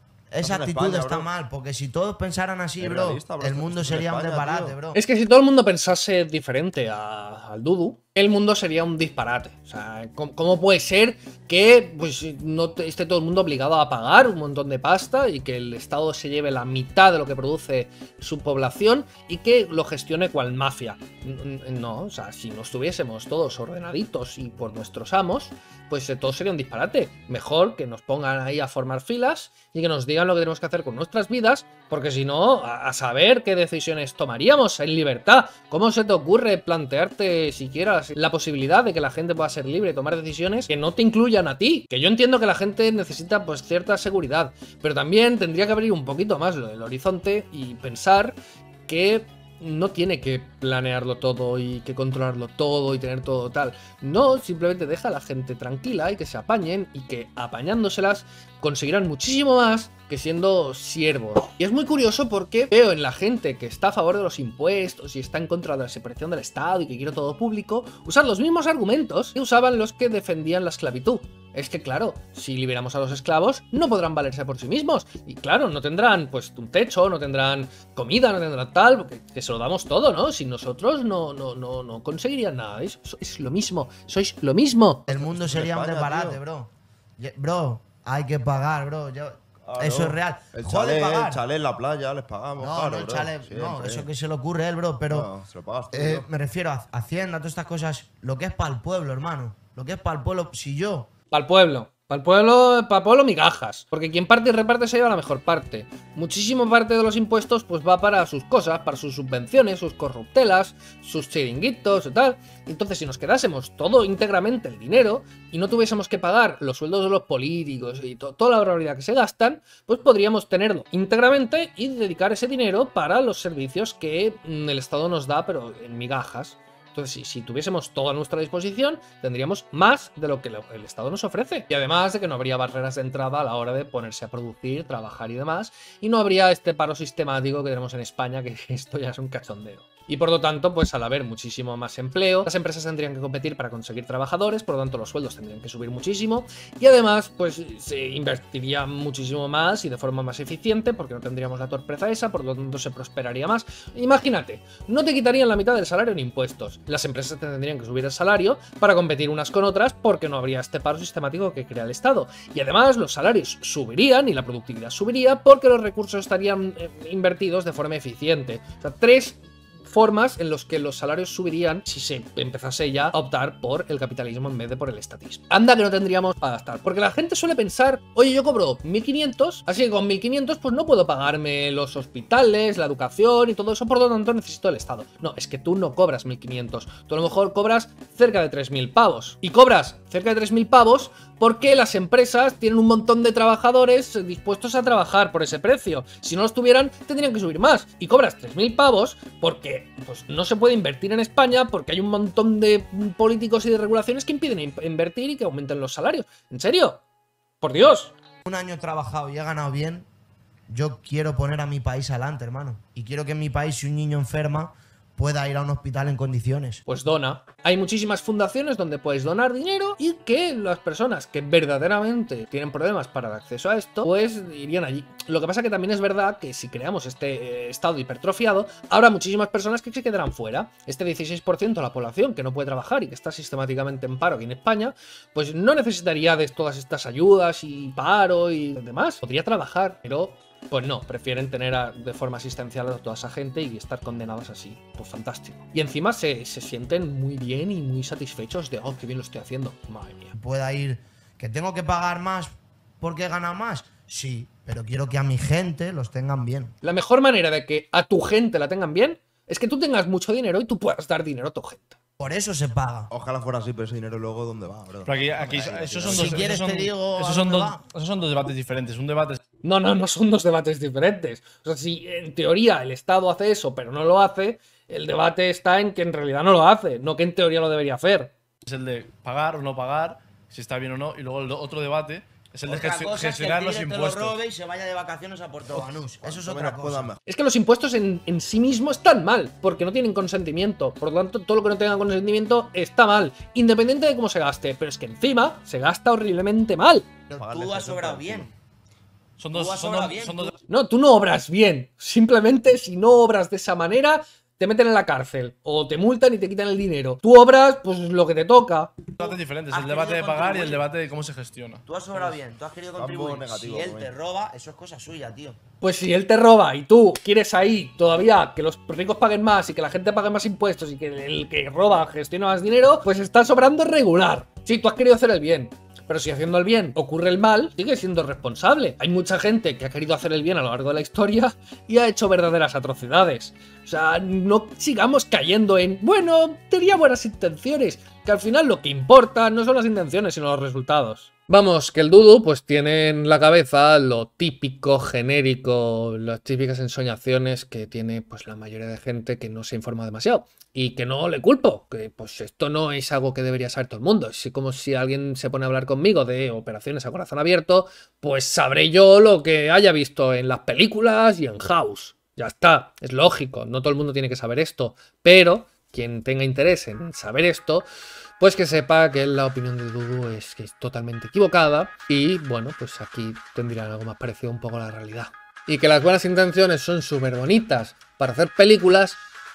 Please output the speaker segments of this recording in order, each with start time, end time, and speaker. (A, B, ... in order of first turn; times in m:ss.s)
0:00.3-0:05.0 A
0:00.4-0:01.3 B
0:02.8-0:04.8 B
0:04.9-1:25.0 C
1:25.1-1:31.4 A
1:25.1-1:26.4 B
1:29.6-1:34.1 B
1:32.6-1:35.3 A
1:35.1-1:36.2 B
1:35.9-1:41.1 A
1:41.3-3:27.0 C
3:27.6-3:28.1 C
3:28.4-3:30.1 A
3:30.7-3:36.8 A
3:36.9-4:10.4 C
4:10.4-4:16.7 A
4:16.8-4:22.0 C
4:22.2-4:23.1 A
4:23.1-4:26.5 B
4:25.0-4:29.4 D
4:26.0-4:27.8 A
4:29.6-4:38.3 C
4:38.6-4:44.4 D
4:42.6-4:47.1 A
4:45.8-4:47.2 B
4:47.2-4:57.0 C
4:57.3-4:58.5 A
4:57.4-4:58.5 B
4:59.4-5:00.6 D
4:59.5-5:00.5 A
5:00.7-5:09.0 C
5:09.2-5:10.8 A
5:09.2-5:11.8 D
5:11.8-5:15.6 A
5:13.0-5:14.1 B
5:15.8-6:07.8 C
6:08.4-6:19.2 C